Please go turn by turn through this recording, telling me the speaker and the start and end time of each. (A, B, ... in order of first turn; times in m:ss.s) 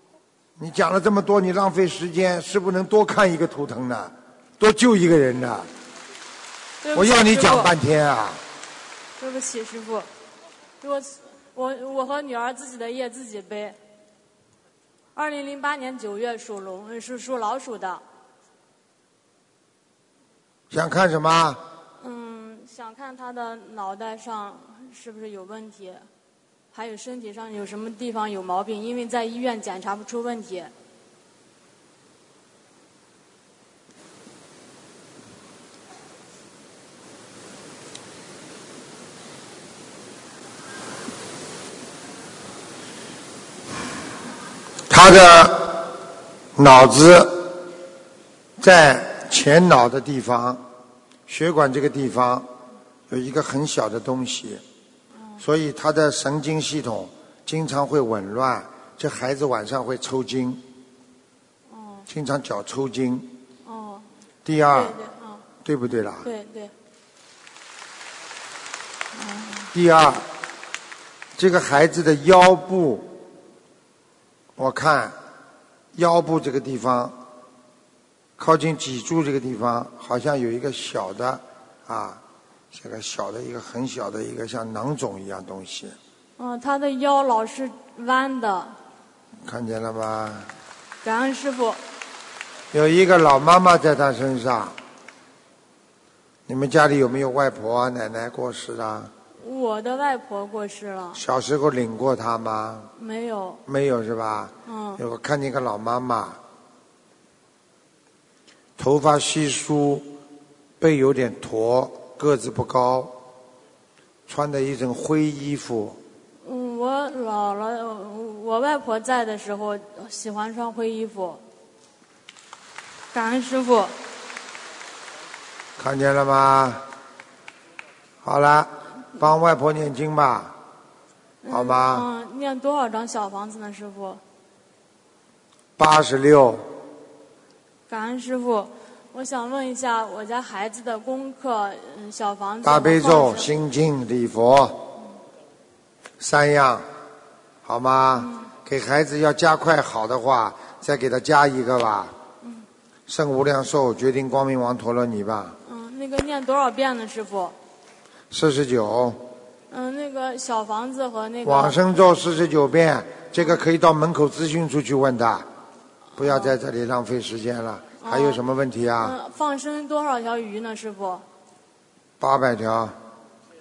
0:00.6-0:05.7 A
0:06.8-0:07.7 B
0:06.9-0:08.4 A
0:09.2-0:10.1 B
0:10.8-0:13.8 B
0:15.1-0:18.0 B
0:20.7-0:21.6 A
0:22.0-0:26.0 B
0:26.7-0:30.7 B
0:44.9-0:45.9 A
0:46.6-0:47.6 A
0:48.6-0:50.6 A
0:51.3-0:52.5 A
0:53.1-0:54.6 A
0:55.4-1:00.6 A
1:01.7-1:02.1 B
1:02.1-1:03.4 A
1:03.6-1:04.1 B
1:04.4-1:05.0 A
1:04.7-1:05.4 B
1:05.6-1:06.3 A
1:06.2-1:06.7 B
1:09.1-1:09.7 B
1:09.7-1:10.3 A
1:11.4-1:13.1 A
1:14.6-1:15.2 A
1:15.9-1:17.2 A
1:18.4-1:26.0 A
1:26.4-1:28.7 B
1:29.4-1:30.5 A
1:31.0-1:31.8 B
1:32.7-1:34.8 A
1:36.5-1:39.1 A
1:39.4-1:41.2 B
1:41.1-1:42.9 A
1:43.0-1:43.6 B
1:43.7-1:46.4 A
1:44.7-1:45.0 B
1:48.8-1:50.1 A
1:50.8-1:53.2 A
1:54.3-1:56.0 A
1:56.4-2:01.4 B
2:03.1-2:03.9 B
2:05.8-2:06.8 A
2:08.2-2:10.6 A
2:11.4-2:14.2 B
2:11.5-2:12.1 A
2:15.8-2:16.7 A
2:17.9-2:23.5 B
2:22.6-2:24.8 A
2:26.2-2:26.9 A
2:27.6-2:32.1 A
2:28.2-2:28.5 B
2:33.1-2:35.6 A
2:35.6-2:37.6 B
2:38.3-2:39.2 A
2:39.7-2:41.8 B
2:41.4-2:45.5 A
2:46.2-2:49.2 A
2:46.2-2:46.6 B
2:48.0-2:48.4 B
2:49.0-2:51.2 B
2:52.2-2:53.0 A